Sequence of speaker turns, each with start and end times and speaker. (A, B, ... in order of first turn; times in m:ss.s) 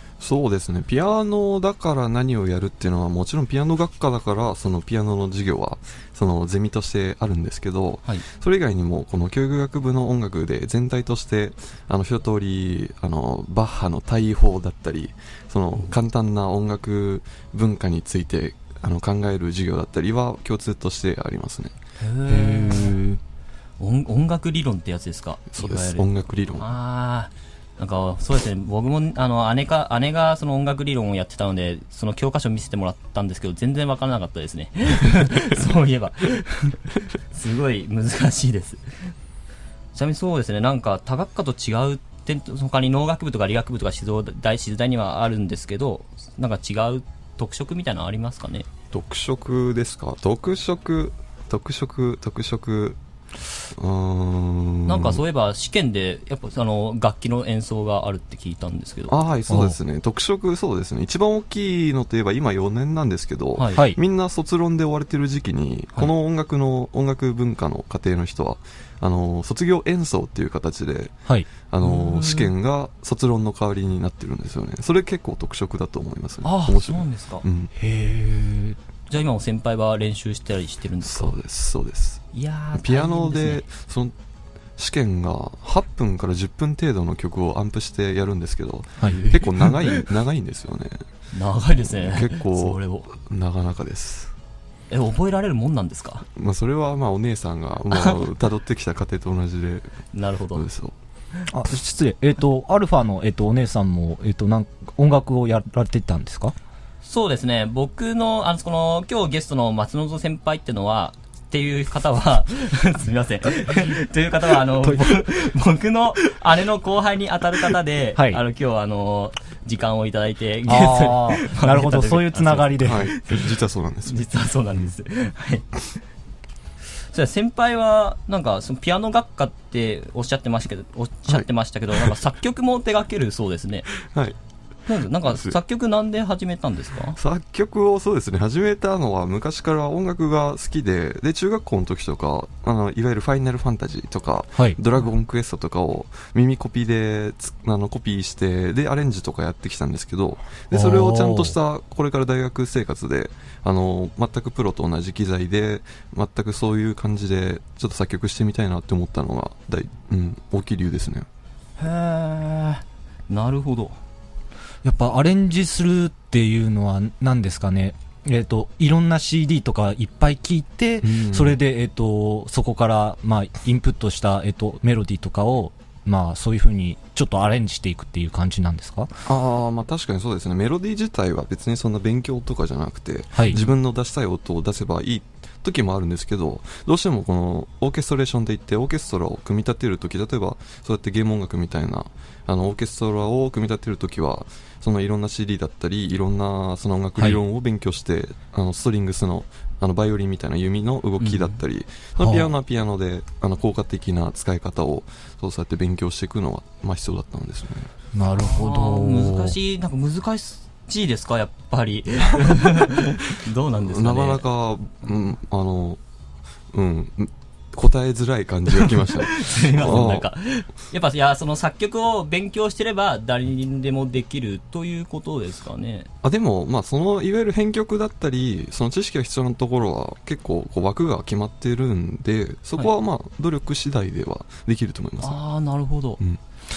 0:00.2-0:21.7 A
0:22.0-0:23.0 B
0:22.3-0:23.2 C
0:23.8-0:26.1 B
0:25.5-0:26.7 A
0:26.6-0:39.1 B
0:39.9-0:48.7 B
0:48.9-0:53.0 A
0:53.7-0:55.2 A
0:54.9-0:59.1 B
0:59.1-1:17.7 A
0:59.5-0:59.8 C
1:03.7-1:04.0 C
1:11.8-1:12.5 B
1:16.4-1:17.4 B
1:17.7-1:18.8 C
1:19.1-1:21.3 B
1:21.0-1:24.1 A
1:22.3-1:23.6 B
1:24.8-1:31.0 A
1:29.0-1:30.1 B
1:31.3-1:33.1 B
1:31.8-1:34.3 A
1:34.9-1:36.2 B
1:36.4-1:39.9 A
1:40.1-1:40.6 B
1:40.5-1:40.9 A
1:41.5-1:46.5 C
1:47.0-2:03.5 B
1:54.8-1:55.2 C
1:58.2-1:58.4 C
2:00.7-2:03.1 C
2:02.8-2:04.3 A
2:04.1-2:05.7 B
2:07.1-2:13.9 B
2:11.3-2:12.1 A
2:14.0-2:14.4 A
2:14.9-2:17.2 B
2:15.2-2:15.6 A
2:17.2-2:41.3 A
2:30.7-2:31.6 C
2:41.8-2:44.0 B
2:44.8-2:59.1 C
2:51.0-2:51.6 A
2:59.2-3:27.9 A
3:03.3-3:03.6 C
3:21.2-3:21.6 B
3:22.2-3:22.5 C
3:28.1-3:29.6 C
3:28.4-3:34.4 B
3:33.8-3:36.0 A
3:36.7-3:40.3 A
3:38.7-3:46.1 B
3:46.2-3:55.4 A
3:55.2-3:56.2 B